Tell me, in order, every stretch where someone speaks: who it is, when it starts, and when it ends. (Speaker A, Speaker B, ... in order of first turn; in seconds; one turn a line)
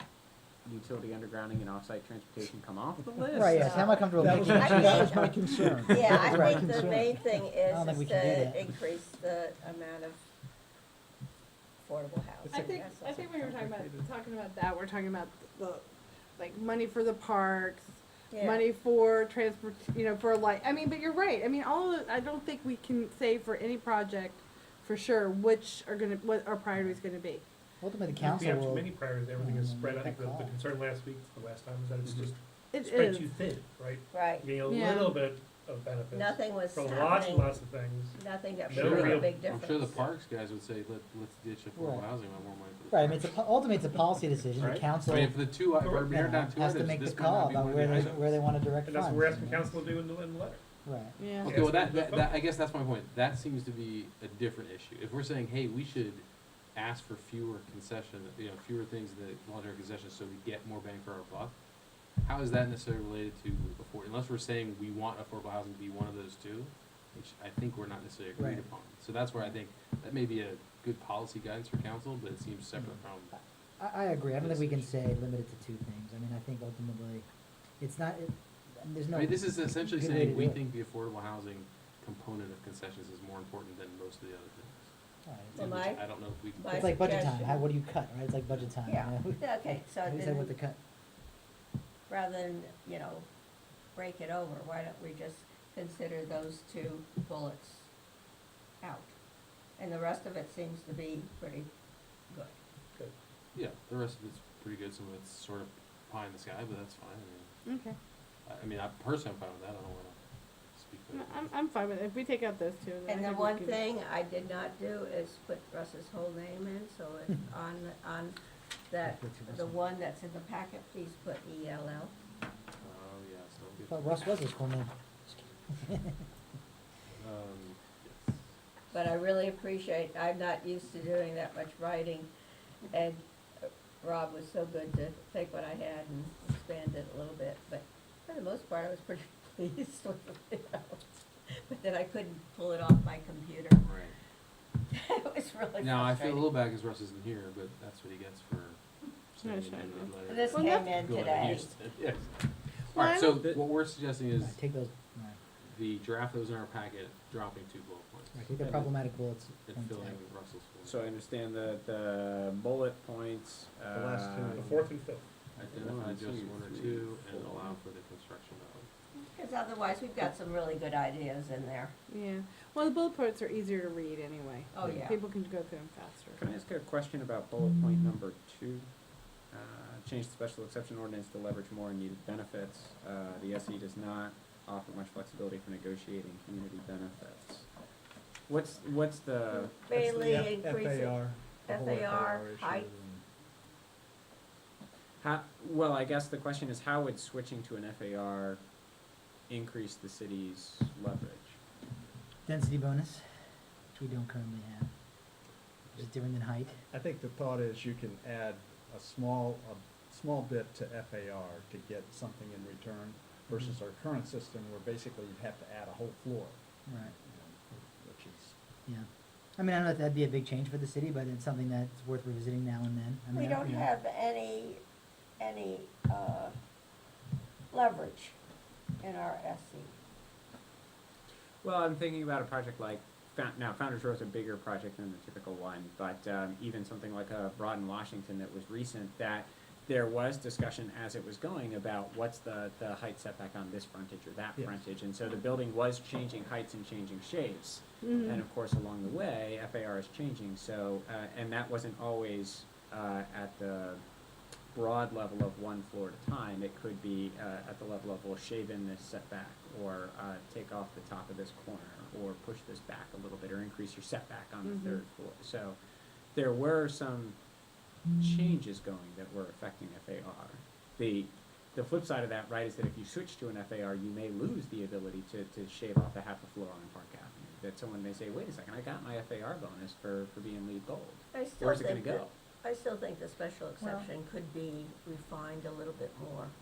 Speaker A: 0.7-5.0
Speaker B: 3.3-8.7
Speaker C: 3.5-10.2
Speaker D: 4.1-7.0
Speaker C: 11.8-13.3
Speaker E: 12.4-15.9
Speaker D: 12.5-13.8
Speaker E: 16.4-27.4
Speaker C: 18.3-18.7
Speaker B: 27.8-30.5
Speaker F: 28.2-38.2
Speaker E: 32.7-33.3
Speaker C: 34.1-34.5
Speaker E: 34.7-35.2
Speaker C: 36.1-37.5
Speaker C: 38.1-40.0
Speaker F: 38.7-39.5
Speaker G: 38.7-43.4
Speaker B: 41.8-42.1
Speaker B: 42.9-45.5
Speaker G: 45.0-48.5
Speaker F: 45.7-46.2
Speaker B: 46.1-49.8
Speaker F: 48.8-50.6
Speaker B: 50.9-51.2
Speaker E: 51.2-51.5
Speaker F: 51.3-52.4
Speaker G: 51.5-61.6
Speaker G: 62.2-73.3
Speaker B: 68.4-68.7
Speaker B: 72.8-73.0
Speaker B: 73.8-77.3
Speaker G: 74.4-74.9
Speaker B: 77.8-80.6
Speaker G: 79.1-84.9
Speaker B: 85.3-85.7
Speaker G: 85.5-87.2
Speaker C: 85.5-87.7
Speaker B: 86.7-90.8
Speaker C: 88.8-90.5
Speaker C: 92.1-93.3
Speaker C: 94.0-97.9
Speaker C: 98.8-99.2
Speaker C: 99.8-101.7
Speaker C: 102.3-102.6
Speaker G: 103.5-107.6
Speaker E: 107.7-108.0
Speaker G: 108.5-110.2
Speaker G: 110.7-111.5
Speaker E: 111.1-113.8
Speaker C: 113.1-118.4
Speaker C: 118.9-122.1
Speaker B: 119.0-119.8
Speaker G: 122.8-124.2
Speaker B: 123.9-126.2
Speaker G: 127.1-128.4
Speaker C: 128.9-132.3
Speaker C: 132.9-143.8
Speaker G: 143.8-144.2
Speaker C: 144.9-146.5
Speaker G: 145.8-148.8
Speaker G: 149.3-154.6
Speaker E: 149.4-151.1
Speaker C: 150.3-151.7
Speaker E: 152.9-153.3
Speaker A: 153.3-153.6
Speaker B: 154.4-155.4
Speaker G: 155.7-158.5
Speaker B: 158.3-160.2
Speaker A: 158.6-158.9
Speaker G: 159.7-161.1
Speaker A: 160.8-164.7
Speaker D: 163.9-165.0
Speaker F: 164.5-165.3
Speaker G: 165.6-168.9
Speaker A: 165.7-167.6
Speaker C: 169.2-171.9
Speaker E: 172.1-176.4
Speaker C: 174.7-175.2
Speaker A: 176.4-178.9
Speaker A: 179.5-187.7
Speaker A: 188.5-189.8
Speaker C: 189.8-192.9
Speaker D: 189.9-193.2
Speaker A: 195.2-198.6
Speaker A: 199.5-201.6
Speaker B: 202.5-203.2
Speaker B: 203.9-204.9
Speaker B: 205.9-206.8
Speaker D: 206.9-218.6
Speaker B: 216.9-217.1
Speaker B: 218.9-223.9
Speaker C: 223.3-224.8
Speaker C: 225.4-226.6
Speaker C: 227.7-228.4
Speaker C: 229.0-230.0
Speaker A: 231.6-254.0
Speaker E: 248.0-248.4
Speaker A: 254.7-265.8
Speaker E: 264.6-265.0
Speaker A: 266.4-267.4
Speaker A: 268.2-282.3
Speaker C: 281.3-286.5
Speaker B: 283.8-284.1